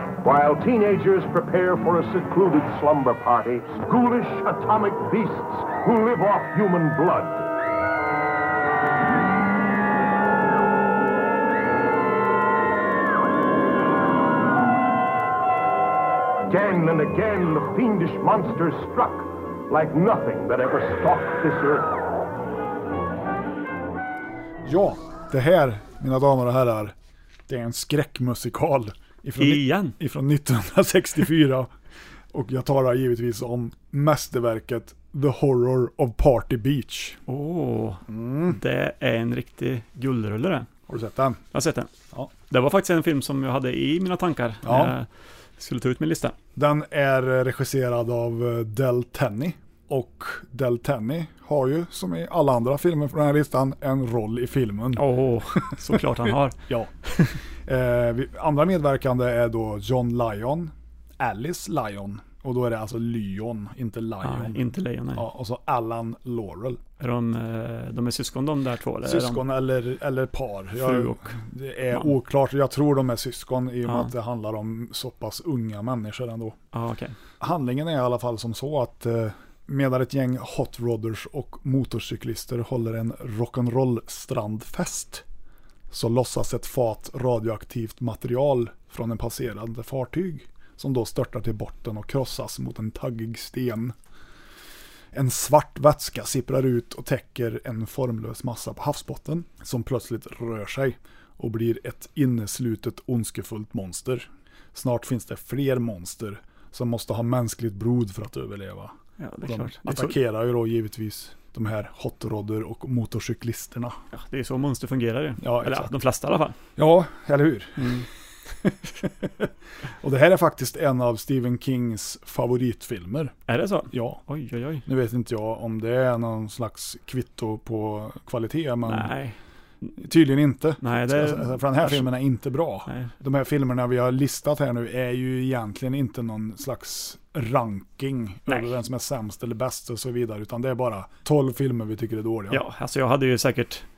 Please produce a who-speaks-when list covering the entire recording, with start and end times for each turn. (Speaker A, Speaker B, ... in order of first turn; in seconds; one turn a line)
Speaker A: 0.2-7.4
Speaker A: 16.5-21.9
Speaker B: 24.6-26.9
Speaker B: 27.5-31.7
Speaker C: 29.4-30.0
Speaker B: 32.3-37.2
Speaker C: 37.3-40.7
Speaker B: 38.1-38.6
Speaker B: 40.9-41.4
Speaker C: 41.5-41.9
Speaker C: 42.5-46.4
Speaker B: 44.6-44.9
Speaker B: 46.6-55.0
Speaker C: 55.0-57.4
Speaker B: 55.6-56.0
Speaker B: 57.7-66.8
Speaker C: 64.2-65.3
Speaker C: 67.0-69.5
Speaker B: 69.0-76.6
Speaker C: 70.8-71.4
Speaker C: 73.9-74.1
Speaker C: 76.7-77.2
Speaker B: 77.4-85.2
Speaker B: 85.9-94.0
Speaker B: 95.1-114.0
Speaker C: 109.2-110.2
Speaker C: 114.1-116.6
Speaker B: 115.4-115.9
Speaker B: 116.8-118.1
Speaker C: 117.8-118.1
Speaker B: 118.6-119.5
Speaker B: 120.0-123.3
Speaker C: 123.5-124.8
Speaker B: 123.9-124.2
Speaker B: 124.9-129.1
Speaker C: 128.9-129.4
Speaker B: 130.0-142.6
Speaker C: 130.8-132.1
Speaker C: 132.9-133.1
Speaker C: 138.5-138.7
Speaker C: 142.5-143.9